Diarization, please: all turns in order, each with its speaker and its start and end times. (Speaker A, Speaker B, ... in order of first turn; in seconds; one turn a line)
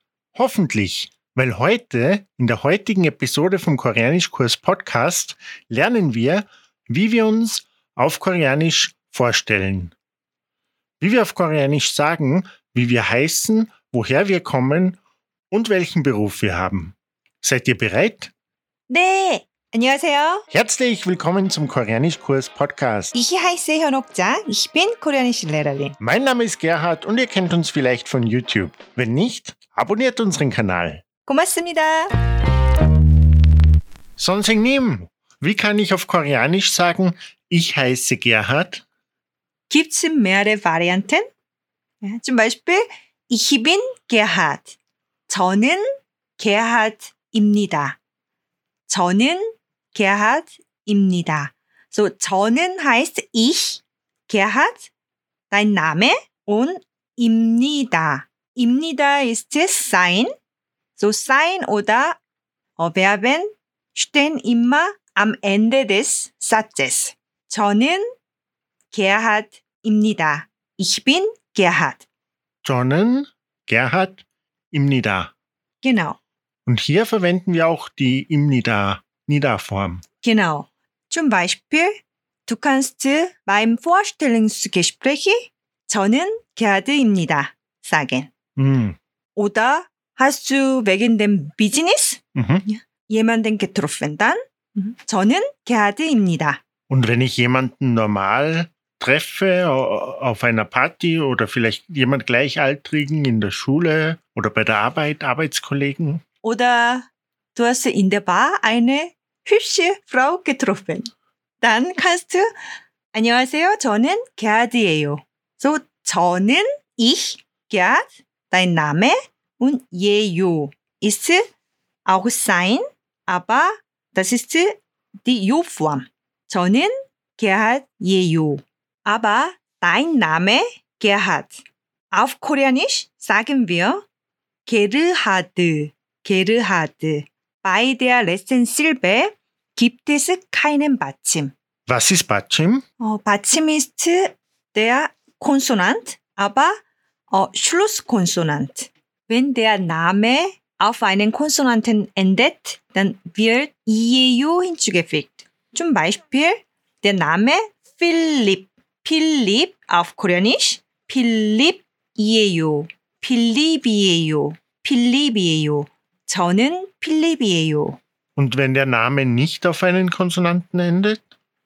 Speaker A: 0.3-9.9
Speaker A: 11.0-15.0
Speaker A: 15.5-18.3
Speaker B: 18.9-20.5
Speaker A: 20.5-23.1
Speaker B: 23.1-26.0
Speaker A: 26.0-31.0
Speaker B: 31.3-32.1
Speaker A: 34.2-38.8
Speaker B: 39.7-41.3
Speaker B: 42.0-44.8
Speaker B: 45.3-45.8
Speaker B: 46.4-48.0
Speaker B: 48.9-54.9
Speaker B: 55.5-60.3
Speaker B: 61.0-62.2
Speaker B: 62.8-68.0
Speaker B: 68.9-72.0
Speaker A: 72.6-75.3
Speaker B: 75.8-76.2
Speaker A: 76.7-80.0
Speaker B: 80.2-88.3
Speaker A: 88.6-89.0
Speaker B: 89.3-96.6
Speaker A: 92.3-92.7
Speaker A: 96.9-106.2
Speaker B: 106.4-112.5
Speaker B: 113.1-121.5
Speaker B: 122.1-131.6
Speaker B: 132.1-134.1
Speaker B: 134.7-141.5
Speaker A: 141.9-142.8
Speaker B: 143.0-168.0
Speaker A: 168.4-171.2